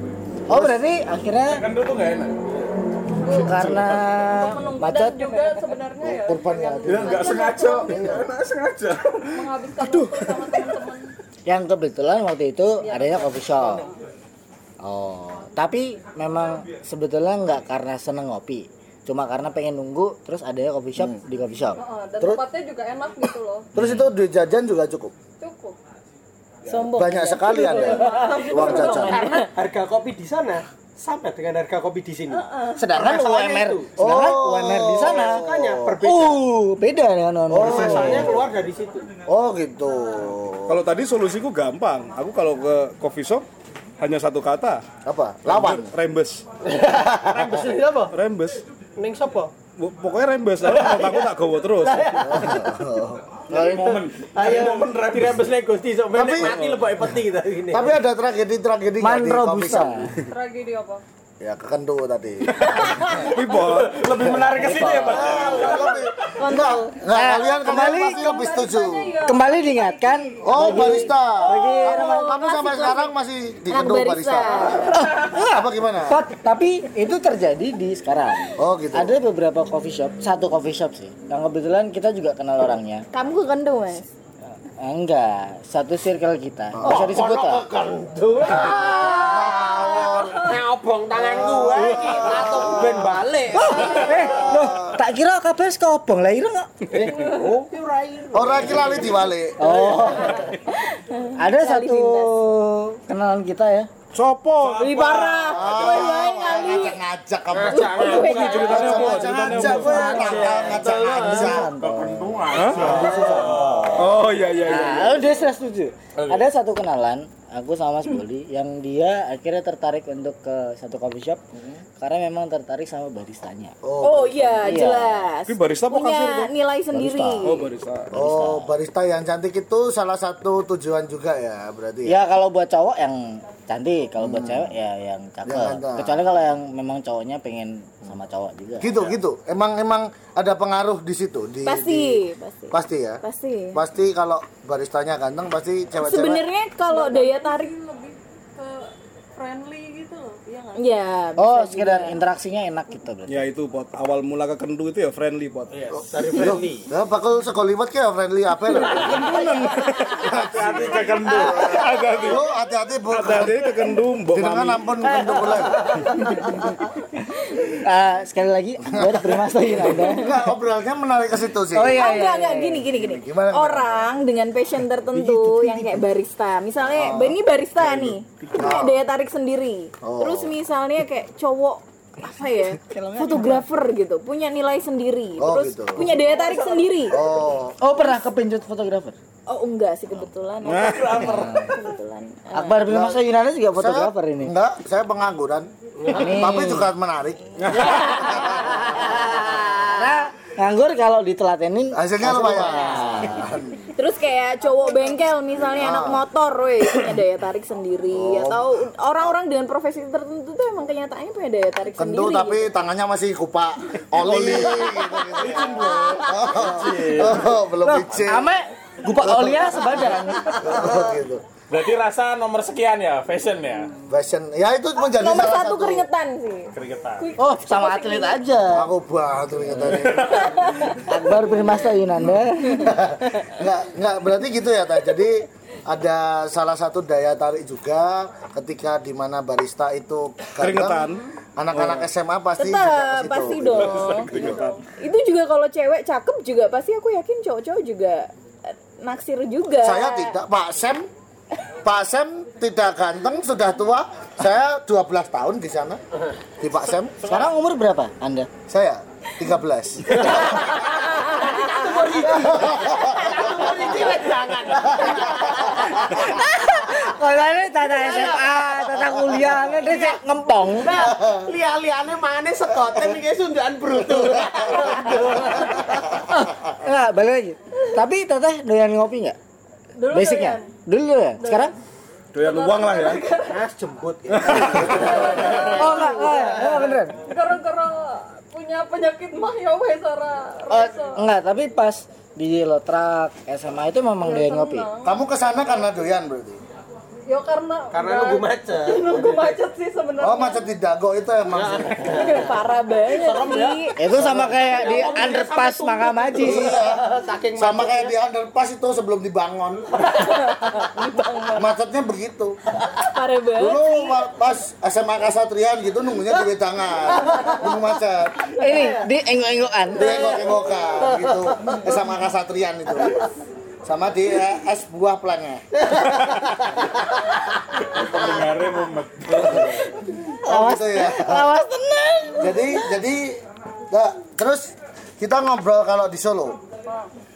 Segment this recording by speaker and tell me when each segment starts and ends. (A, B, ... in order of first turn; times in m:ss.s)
0:00.5-0:01.6 A
0:00.5-0:00.8 B
0:01.5-0:02.4 C
0:03.1-0:08.0 D
0:03.2-0:05.5 A
0:06.0-0:08.2 B
0:06.8-0:09.3 C
0:09.3-0:11.1 D
0:09.8-0:10.2 E
0:11.4-0:13.8 A
0:12.8-0:13.9 D
0:14.8-0:15.5 B
0:15.3-0:21.8 A
0:21.8-0:23.7 D
0:23.7-0:25.1 B
0:23.8-0:24.0 A
0:25.4-0:25.8 D
0:26.6-0:29.5 F
0:26.7-0:29.2 B
0:27.7-0:29.3 D
0:28.7-0:33.9 G
0:32.3-0:32.9 D
0:32.8-0:35.4 A
0:34.0-0:36.0 B
0:35.0-0:36.4 G
0:36.0-0:38.3 A
0:37.5-0:38.5 B
0:37.5-0:39.1 G
0:39.3-0:40.8 B
0:40.7-0:43.4 E
0:44.0-0:44.8 E
0:45.0-0:45.9 B
0:45.4-0:46.4 E
0:46.6-0:48.1 G
0:47.0-0:47.5 B
0:48.1-0:48.6 E
0:49.0-0:49.5 G
0:49.8-0:52.4 E
0:50.6-0:51.3 G
0:51.8-0:52.6 G
0:52.3-0:53.2 B
0:53.5-0:55.2 C
0:53.5-0:54.0 A
0:54.3-0:57.9 G
0:56.1-0:56.5 B
0:56.4-0:56.9 E
0:57.7-1:00.1 B
0:59.0-1:00.1 A
1:00.3-1:01.0 D
1:01.4-1:02.8 B
1:03.1-1:04.1 E
1:03.6-1:05.8 C
1:04.6-1:09.2 B
1:05.4-1:06.0 D
1:05.4-1:07.0 F
1:07.1-1:08.4 A
1:07.2-1:10.7 D
1:09.2-1:12.4 A
1:10.4-1:16.2 B
1:11.4-1:13.1 F
1:13.7-1:15.1 F
1:14.9-1:23.0 A
1:18.6-1:19.2 B
1:23.1-1:24.1 F
1:24.5-1:27.6 A
1:26.7-1:27.3 B
1:26.8-1:34.5 G
1:28.6-1:29.4 F
1:28.7-1:30.6 B
1:31.1-1:35.0 B
1:33.5-1:36.7 A
1:36.9-1:37.3 E
1:36.9-1:40.4 G
1:38.3-1:39.8 B
1:39.6-1:40.4 A
1:40.7-1:42.3 F
1:41.4-1:43.9 A
1:44.1-1:45.1 E
1:44.6-1:46.1 C
1:44.8-1:47.0 F
1:45.5-1:51.8 B
1:47.5-1:51.7 G
1:47.7-1:49.2 F
1:48.2-1:50.0 E
1:49.8-1:52.4 A
1:51.8-1:54.1 C
1:52.5-1:53.0 E
1:52.7-1:54.1 B
1:52.8-1:53.2 G
1:53.9-1:55.4 E
1:54.6-2:01.4 A
1:56.2-1:56.5 C
2:01.5-2:01.8 B
2:02.0-2:03.7 A
2:03.8-2:04.8 B
2:04.0-2:07.6 F
2:04.6-2:05.3 A
2:05.4-2:06.5 E
2:06.9-2:08.7 A
2:07.4-2:08.3 E
2:08.1-2:12.2 B
2:12.0-2:18.9 A
2:14.2-2:14.7 B
2:15.4-2:16.2 B
2:18.8-2:23.2 B
2:21.6-2:23.8 F
2:23.7-2:26.4 B
2:26.0-2:27.7 F
2:26.9-2:30.9 D
2:30.8-2:32.2 F
2:31.4-2:33.5 A
2:33.3-2:35.7 E
2:35.7-2:36.6 C
2:36.1-2:36.9 G
2:36.4-2:39.2 B
2:39.0-2:40.5 E
2:40.2-2:42.2 C
2:40.2-2:43.6 B
2:41.6-2:42.4 E
2:43.1-2:44.9 E
2:44.3-2:46.0 B
2:45.1-2:45.4 A
2:47.8-2:50.3 A
2:48.9-2:52.1 B
2:51.7-2:52.8 A
2:51.9-3:07.2 F
2:52.9-2:54.1 B
2:55.2-2:55.8 A
2:56.8-2:57.4 B
2:58.6-2:59.0 B
3:00.0-3:00.6 B
3:02.8-3:03.6 A
3:05.4-3:06.1 B
3:06.2-3:06.8 D
3:07.0-3:07.7 B
3:07.8-3:09.2 A
3:09.5-3:12.9 F
3:10.6-3:11.1 E
3:10.8-3:11.6 C
3:11.2-3:11.7 A
3:12.5-3:14.5 A
3:12.9-3:17.5 B
3:16.0-3:16.6 G
3:16.1-3:16.9 A
3:17.9-3:18.7 F
3:18.1-3:19.0 B
3:18.7-3:19.2 G
3:19.2-3:19.8 F
3:20.0-3:23.5 A
3:21.9-3:23.9 B
3:24.0-3:32.7 F
3:25.7-3:26.2 B
3:28.1-3:28.7 B
3:32.0-3:38.5 B
3:34.2-3:34.8 E
3:35.1-3:36.6 F
3:35.4-3:37.6 C
3:38.2-3:41.0 A
3:39.2-3:41.4 B
3:41.7-3:43.9 C
3:44.1-3:46.1 B
3:45.0-3:48.4 F
3:46.7-3:47.3 C
3:47.4-3:48.9 A
3:48.7-3:50.5 B
3:50.0-3:50.5 C
3:50.3-3:51.1 F
3:51.1-3:53.0 A
3:52.9-4:04.6 B
4:00.6-4:02.1 E
4:02.6-4:04.4 F
4:03.8-4:04.8 E
4:05.0-4:08.3 F
4:09.0-4:10.4 F
4:09.8-4:11.0 B
4:11.8-4:16.0 B
4:16.6-4:17.2 B
4:17.2-4:17.5 C
4:17.2-4:18.5 A
4:18.7-4:20.4 B
4:20.1-4:26.1 G
4:21.0-4:22.3 F
4:22.3-4:23.3 B
4:25.1-4:25.6 B
4:26.0-4:31.1 A
4:26.4-4:27.0 F
4:28.0-4:28.8 G
4:29.6-4:30.0 G
4:30.8-4:36.2 G
4:31.1-4:31.5 B
4:36.3-4:39.4 A
4:40.0-4:40.8 D
4:40.1-4:41.7 A
4:41.4-4:41.7 D
4:42.3-4:43.2 E
4:42.4-4:43.5 D
4:43.3-4:46.9 G
4:44.3-4:44.9 E
4:45.0-4:51.2 D
4:45.0-4:45.5 B
4:45.7-4:47.1 A
4:50.7-4:54.9 A
4:54.2-4:55.2 D
4:55.0-4:56.6 B
4:57.3-5:00.6 D
4:57.9-4:59.6 G
5:00.2-5:02.1 B
5:01.5-5:02.5 G
5:02.1-5:04.0 F
5:03.1-5:08.1 G
5:04.0-5:06.7 A
5:04.2-5:04.5 B
5:04.6-5:06.5 D
5:06.4-5:07.0 B
5:07.6-5:10.1 B
5:10.1-5:11.7 F
5:11.5-5:12.6 B
5:12.9-5:13.9 F
5:13.5-5:18.5 B
5:18.6-5:20.3 A
5:19.9-5:23.2 B
5:21.0-5:21.9 G
5:23.8-5:26.0 B
5:25.9-5:26.8 G
5:27.8-5:29.9 C
5:29.3-5:29.6 E
5:30.4-5:32.9 A
5:30.4-5:31.5 B
5:32.4-5:36.6 B
5:36.8-5:37.1 D